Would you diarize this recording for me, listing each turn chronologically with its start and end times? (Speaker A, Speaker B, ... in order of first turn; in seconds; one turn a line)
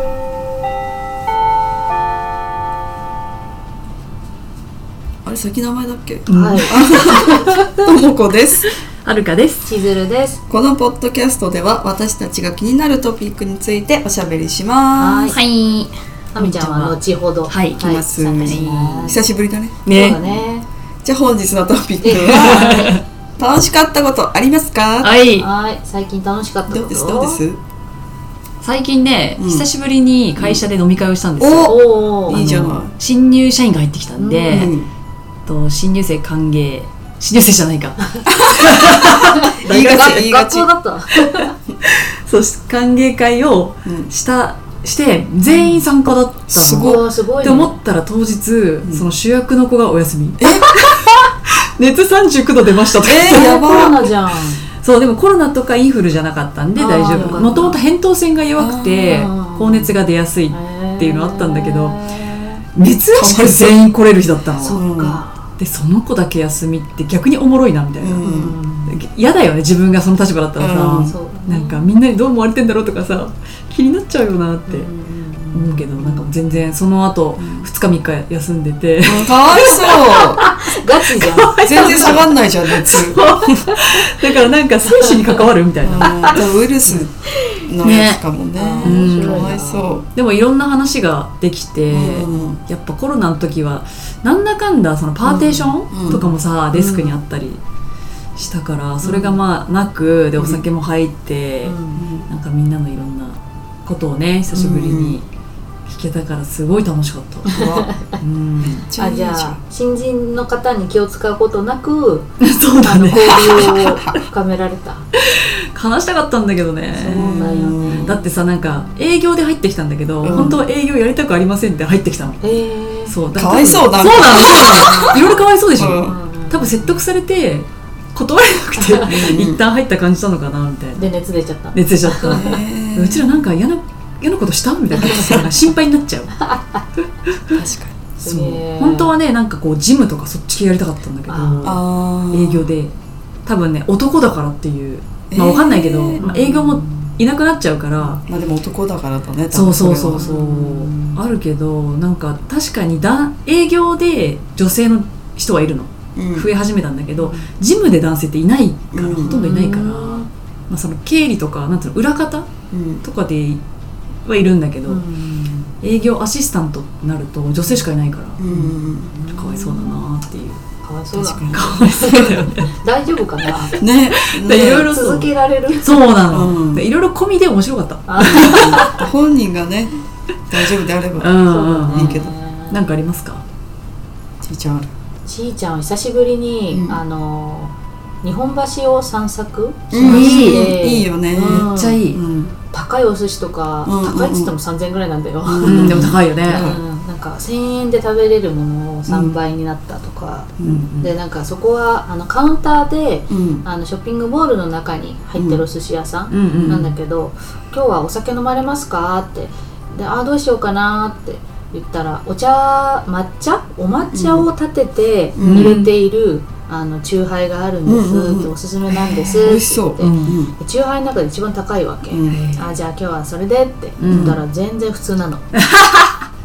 Speaker A: 5.2-8.7
Speaker B: 6.3-7.0
Speaker C: 6.3-7.7
Speaker B: 8.9-9.7
Speaker C: 9.7-10.4
Speaker A: 10.5-15.3
Speaker C: 15.0-15.4
Speaker B: 15.3-17.0
Speaker C: 16.3-19.2
Speaker B: 17.5-17.8
Speaker A: 17.8-20.4
Speaker B: 18.4-19.2
Speaker B: 19.8-20.2
Speaker C: 19.9-20.6
Speaker A: 21.0-25.2
Speaker C: 22.0-22.9
Speaker B: 22.3-23.0
Speaker B: 25.0-25.5
Speaker C: 25.3-27.4
Speaker A: 26.7-27.6
Speaker B: 28.6-34.7
Speaker A: 29.4-29.6
Speaker A: 31.4-32.9
Speaker C: 31.6-32.5
Speaker C: 34.2-34.7
Speaker A: 34.5-34.9
Speaker B: 35.5-40.2
Speaker A: 38.3-39.0
Speaker C: 39.3-41.5
Speaker A: 39.6-40.7
Speaker B: 41.2-53.6
Speaker A: 43.8-44.1
Speaker C: 45.5-45.8
Speaker A: 46.5-47.0
Speaker C: 46.8-47.8
Speaker A: 48.8-49.1
Speaker A: 50.4-50.7
Speaker A: 53.0-54.1
Speaker C: 53.2-54.6
Speaker B: 54.8-62.0
Speaker C: 56.8-57.8
Speaker A: 57.1-57.5
Speaker A: 58.6-59.1
Speaker C: 59.0-59.9
Speaker C: 60.5-62.6
Speaker B: 62.7-64.8
Speaker A: 63.1-63.8
Speaker C: 64.6-65.5
Speaker A: 64.7-65.2
Speaker B: 65.6-68.2
Speaker A: 68.0-68.5
Speaker C: 68.2-69.0
Speaker B: 68.8-74.9
Speaker A: 70.6-71.1
Speaker C: 71.0-71.9
Speaker C: 74.7-75.7
Speaker B: 75.5-79.7
Speaker A: 77.4-77.7
Speaker A: 79.0-80.4
Speaker C: 79.5-82.3
Speaker B: 81.1-87.0
Speaker A: 81.6-83.3
Speaker C: 83.7-84.0
Speaker C: 84.8-85.4
Speaker A: 85.8-90.0
Speaker C: 86.0-86.4
Speaker B: 87.8-88.2
Speaker C: 88.5-89.9
Speaker B: 88.8-89.6
Speaker B: 90.1-97.6
Speaker A: 91.9-92.6
Speaker A: 95.2-96.2
Speaker C: 96.7-97.2
Speaker B: 98.3-101.8
Speaker C: 99.0-99.3
Speaker C: 101.6-102.0
Speaker A: 101.9-102.3
Speaker B: 102.3-105.2
Speaker A: 104.5-105.2
Speaker B: 105.8-107.6
Speaker C: 107.5-108.2
Speaker A: 107.5-107.9
Speaker B: 108.2-108.8
Speaker A: 108.8-109.6
Speaker C: 109.0-115.1
Speaker B: 112.4-114.2
Speaker B: 115.2-122.4
Speaker A: 117.0-118.1
Speaker C: 117.0-118.3
Speaker A: 120.2-120.6
Speaker C: 122.4-123.2
Speaker B: 123.1-131.1
Speaker A: 123.3-125.2
Speaker C: 124.4-125.4
Speaker A: 125.8-126.2
Speaker C: 126.0-127.0
Speaker C: 128.8-129.2
Speaker A: 129.0-129.6
Speaker C: 131.0-132.6
Speaker B: 131.7-136.4
Speaker A: 132.2-133.3
Speaker C: 134.9-135.5
Speaker C: 136.4-136.8
Speaker A: 137.5-137.9
Speaker C: 138.2-139.1
Speaker B: 138.2-142.9
Speaker C: 141.3-141.8
Speaker A: 141.6-142.7
Speaker B: 143.4-148.2
Speaker A: 145.3-146.2
Speaker C: 146.2-147.1
Speaker A: 148.2-150.3
Speaker B: 149.5-162.5
Speaker C: 150.2-151.2
Speaker A: 156.1-156.5
Speaker C: 157.2-157.5
Speaker A: 158.9-159.4
Speaker C: 159.2-160.3
Speaker A: 162.7-163.0
Speaker B: 163.0-163.6
Speaker B: 164.2-165.0
Speaker C: 164.9-165.7
Speaker B: 165.8-168.7
Speaker A: 168.4-169.1
Speaker C: 169.1-170.0
Speaker B: 169.3-170.6
Speaker C: 170.8-173.8
Speaker A: 171.1-172.0
Speaker B: 171.5-172.7
Speaker B: 173.7-175.3
Speaker A: 173.8-174.9
Speaker C: 174.5-176.0
Speaker B: 175.8-178.8
Speaker A: 176.3-176.8
Speaker C: 178.1-179.0
Speaker A: 178.2-179.9
Speaker A: 180.5-182.3
Speaker B: 181.2-183.4
Speaker C: 181.4-182.8
Speaker A: 184.4-184.9
Speaker C: 185.2-192.1
Speaker A: 186.7-187.0
Speaker A: 189.9-192.5
Speaker B: 190.0-190.7
Speaker B: 191.5-192.2
Speaker C: 192.7-225.5
Speaker A: 193.8-194.5
Speaker A: 195.4-196.8
Speaker B: 195.6-196.7
Speaker A: 199.1-199.3
Speaker A: 200.6-200.8
Speaker B: 200.6-201.1
Speaker A: 203.3-203.6
Speaker A: 205.4-205.6
Speaker B: 206.3-206.9
Speaker A: 214.1-214.4
Speaker A: 215.3-215.7
Speaker B: 215.4-215.9
Speaker A: 217.8-218.5
Speaker B: 218.9-220.4
Speaker A: 219.4-220.5
Speaker A: 222.1-222.4
Speaker B: 222.3-222.8
Speaker B: 224.0-224.4
Speaker A: 224.1-224.4
Speaker B: 225.5-226.2